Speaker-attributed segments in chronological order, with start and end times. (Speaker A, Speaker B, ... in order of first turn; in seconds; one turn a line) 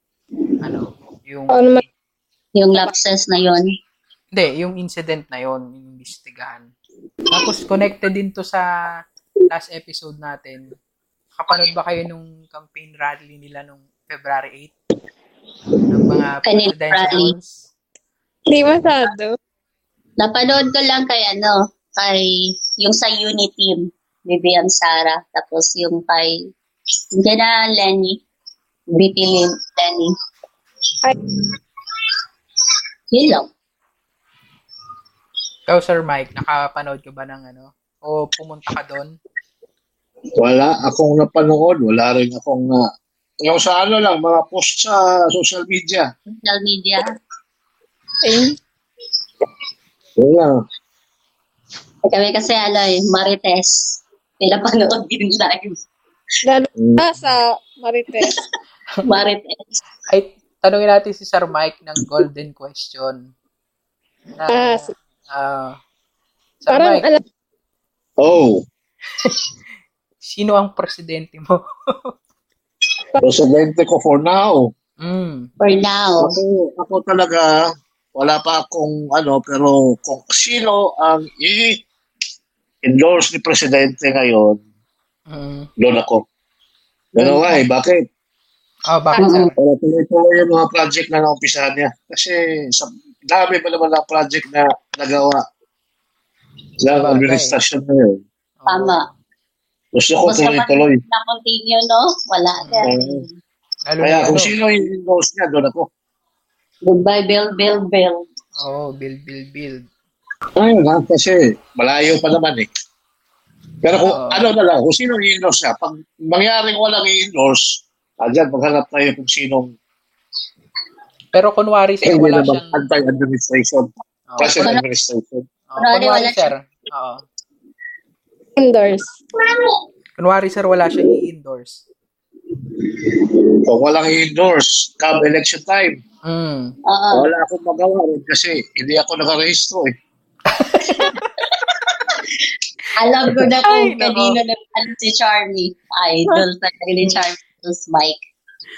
Speaker A: 0.6-1.7
Speaker B: 1.5-1.8
Speaker C: 2.5-3.7
Speaker A: 4.3-6.7
Speaker A: 7.3-8.6
Speaker A: 9.5-10.7
Speaker A: 11.3-14.7
Speaker A: 15.9-17.7
Speaker C: 16.4-17.3
Speaker B: 18.5-19.3
Speaker C: 20.2-26.3
Speaker C: 27.1-28.2
Speaker C: 28.9-30.1
Speaker C: 33.1-33.5
Speaker A: 35.7-39.1
Speaker D: 40.4-42.8
Speaker D: 43.4-46.1
Speaker C: 46.3-47.1
Speaker B: 48.2-48.5
Speaker D: 50.2-50.5
Speaker C: 52.1-55.8
Speaker B: 56.4-58.4
Speaker D: 56.8-57.1
Speaker C: 59.0-59.8
Speaker A: 60.1-63.3
Speaker A: 64.3-65.8
Speaker B: 64.5-64.8
Speaker A: 66.6-67.0
Speaker B: 66.7-67.2
Speaker D: 68.2-68.6
Speaker A: 70.2-72.1
Speaker D: 73.2-74.7
Speaker A: 75.0-75.5
Speaker C: 75.6-76.3
Speaker D: 76.2-77.5
Speaker D: 78.2-81.8
Speaker D: 82.8-84.6
Speaker A: 85.3-85.7
Speaker D: 85.8-86.2
Speaker D: 87.1-88.0
Speaker A: 88.9-89.5
Speaker C: 89.2-89.5
Speaker D: 89.6-95.4
Speaker D: 96.8-98.2
Speaker A: 97.0-97.5
Speaker A: 98.6-99.0
Speaker C: 98.7-99.0
Speaker D: 99.9-101.0
Speaker C: 100.2-103.4
Speaker A: 102.6-102.9
Speaker D: 102.8-103.2
Speaker A: 103.9-104.5
Speaker D: 104.0-105.9
Speaker C: 106.8-108.2
Speaker A: 108.6-109.8
Speaker D: 110.6-112.7
Speaker D: 113.8-119.7
Speaker A: 114.0-114.5
Speaker A: 121.3-122.9
Speaker D: 122.0-125.4
Speaker A: 124.3-124.6
Speaker C: 124.4-124.8
Speaker A: 125.7-127.2
Speaker C: 125.8-126.5
Speaker B: 128.6-129.1
Speaker A: 130.2-131.8
Speaker D: 133.7-136.0
Speaker A: 136.2-136.7
Speaker C: 136.9-137.3
Speaker D: 137.1-139.9
Speaker A: 140.5-141.2
Speaker C: 142.9-148.2
Speaker A: 143.6-144.4